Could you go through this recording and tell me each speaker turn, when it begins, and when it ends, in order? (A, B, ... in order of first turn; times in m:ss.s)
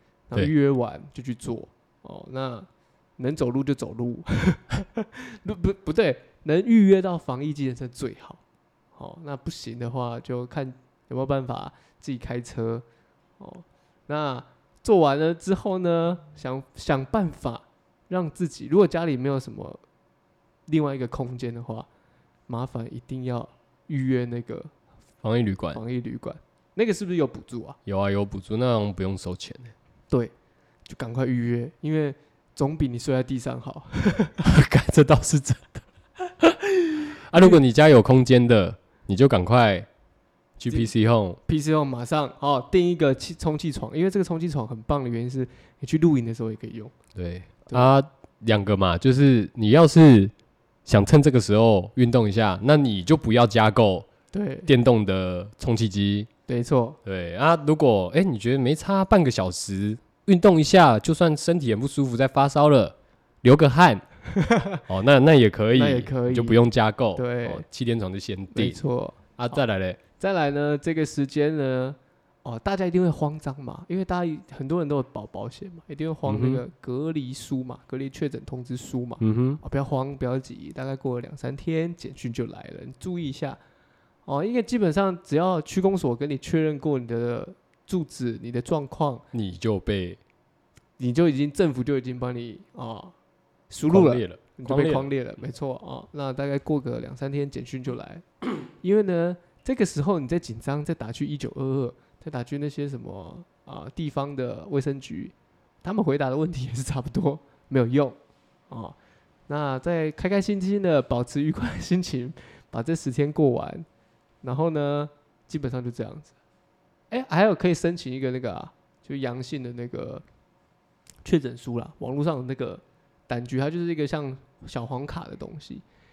0:00.3-0:08.4 A
0:09.0-0:12.8 A
0:13.4-0:19.8 A
0:20.7-0:21.9 A
0:22.5-0:24.7 A
0:25.2-0:25.8 B
0:25.7-0:27.8 A
0:27.9-0:29.7 B
0:30.9-0:34.4 A
0:34.4-0:35.8 B
0:36.4-0:39.9 B
0:37.3-0:37.6 A
0:40.6-0:41.4 B
0:41.5-0:46.9 A
0:47.2-0:50.3 B
0:50.9-0:54.1 B
0:54.3-0:54.7 A
0:54.7-0:56.3 B
0:56.5-0:57.0 A
0:57.0-1:04.0 B
1:04.3-1:04.8 A
1:04.9-1:08.8 B
1:05.7-1:06.6 A
1:07.2-1:07.7 A
1:08.5-1:09.6 A
1:09.4-1:10.0 B
1:10.2-1:23.6 A
1:16.3-1:16.6 B
1:19.2-1:19.6 B
1:24.3-1:29.2 A
1:29.3-1:30.2 B
1:31.0-1:33.1 A
1:33.7-1:48.2 A
1:33.9-1:35.1 B
1:48.7-1:49.0 A
1:49.5-1:53.9 A
1:54.4-1:56.3 A
1:57.1-2:00.2 A
2:01.2-2:05.8 A